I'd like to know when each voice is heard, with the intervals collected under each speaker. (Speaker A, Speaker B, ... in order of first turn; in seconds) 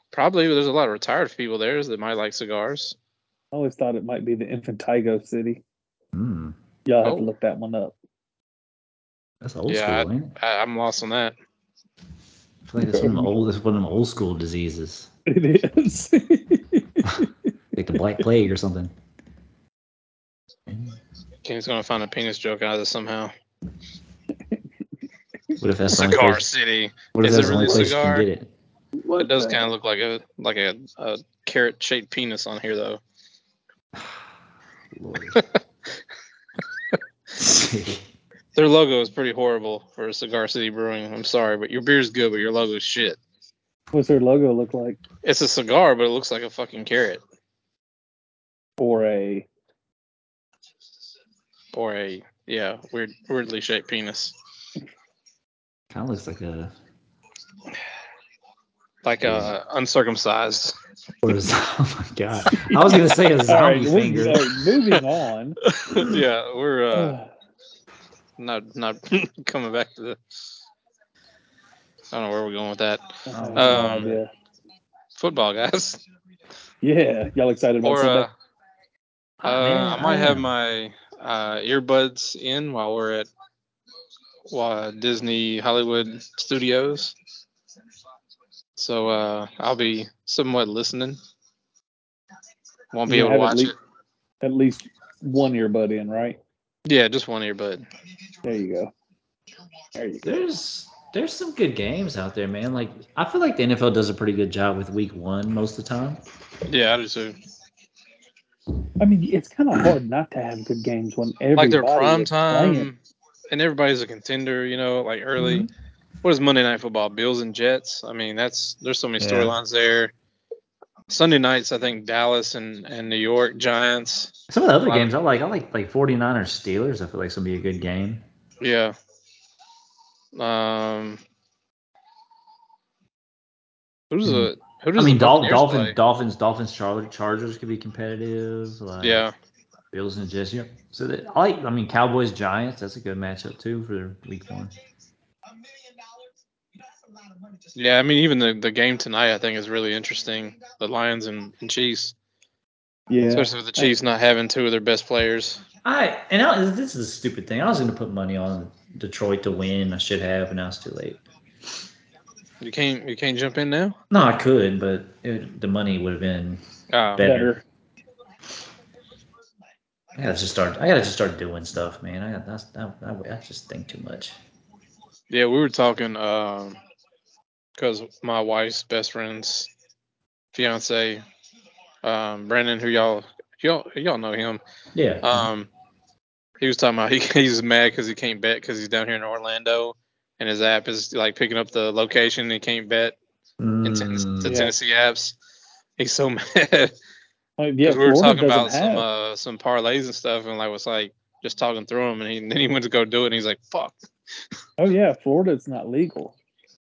Speaker A: 0.1-3.0, 7.0-7.3, 9.7-11.3, 21.4-23.3, 25.9-28.3, 29.2-33.0, 38.5-43.2, 45.2-47.2, 51.7-54.3, 59.0-60.8, 65.7-67.1, 68.4-70.2, 72.1-74.2, 75.2-76.0, 77.8-78.3, 79.4-83.3, 84.5-87.2, 88.8-91.2, 92.9-93.7, 96.8-97.8, 106.7-107.3, 111.6-113.0, 113.5-115.7, 116.2-120.1, 121.1-124.3, 124.8-125.1, 128.6-128.9, 130.3-131.2, 134.1-135.9, 139.0-139.3, 147.7-152.1, 153.3-155.6, 162.6-164.0, 166.9-167.3, 175.3-176.8, 177.8-179.7, 180.5-181.2, 182.0-184.6, 185.2-185.7, 186.6-193.2, 193.8-195.3, 196.0-196.9, 197.8-203.9
Speaker B: 3.5-5.6, 6.8-7.9, 12.8-13.3, 15.3-17.3, 29.0-29.7, 43.9-45.0, 48.8-49.5, 62.5-65.6, 66.9-67.3, 73.2-74.3, 76.8-78.3, 93.1-93.7, 94.4-96.4, 98.4-98.9, 99.9-100.2, 109.0-112.9, 153.1-153.9, 167.2-167.6, 194.4-194.7, 197.6-199.1, 204.8-206.3
Speaker C: 6.1-6.5, 9.4-10.3, 12.7-15.1, 17.0-18.9, 20.7-21.0, 25.6-26.5, 27.1-28.5, 34.9-35.4, 37.3-38.0, 55.9-56.7, 59.2-59.5, 61.2-64.5, 73.3-74.2, 79.4-80.5, 100.2-106.2, 115.4-115.7, 119.2-119.5, 124.5-128.2, 134.2-139.3, 139.9-144.7, 155.8-161.2, 164.1-166.6, 167.1-167.5, 170.1-174.4, 184.9-185.5, 193.6-194.6